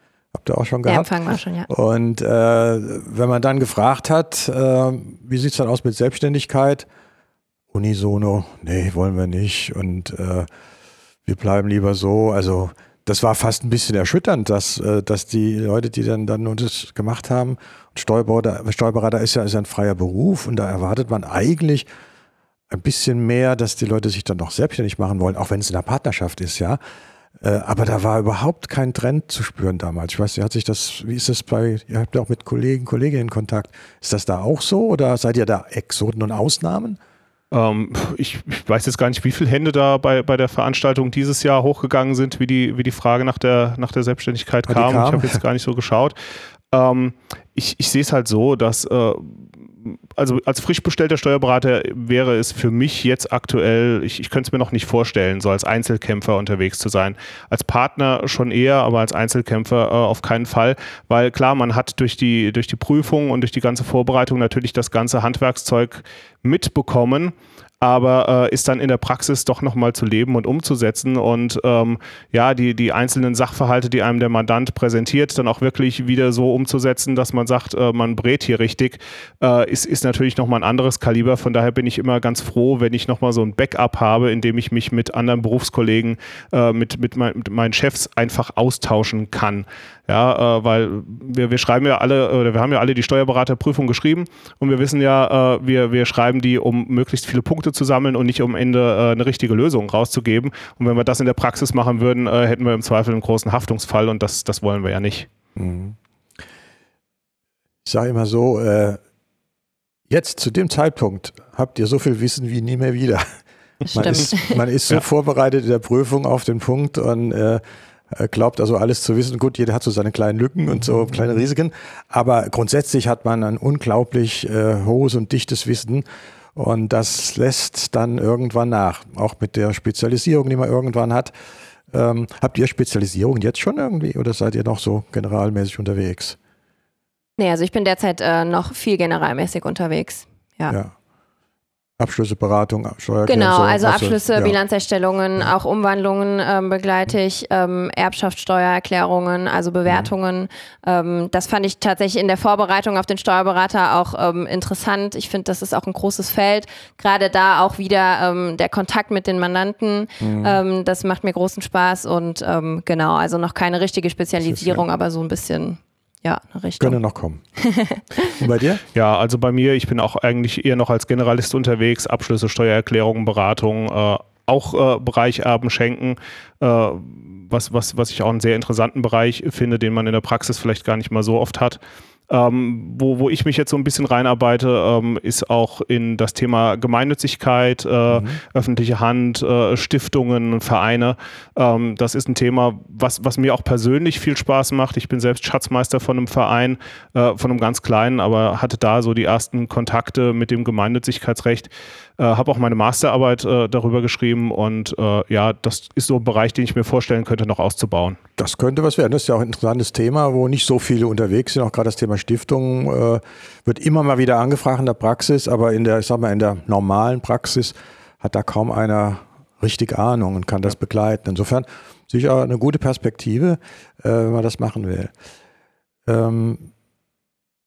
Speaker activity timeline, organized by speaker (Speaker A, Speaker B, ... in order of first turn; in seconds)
Speaker A: 0.3-1.1, 1.7-6.8, 7.7-10.5, 11.2-21.9, 22.7-26.8, 27.4-37.0, 44.7-45.4, 105.5-106.0, 107.8-109.0, 110.1-113.2, 113.9-131.3, 131.9-136.4, 142.0-144.6, 160.2-160.6, 164.4-164.8, 166.8-167.4, 168.3-168.8, 188.1-188.4, 208.4-225.1, 226.1-226.7
Speaker B: 0.8-1.7, 113.8-114.6, 137.4-140.7, 143.2-167.0, 167.6-168.3
Speaker C: 37.5-46.1, 46.7-105.3, 168.9-208.2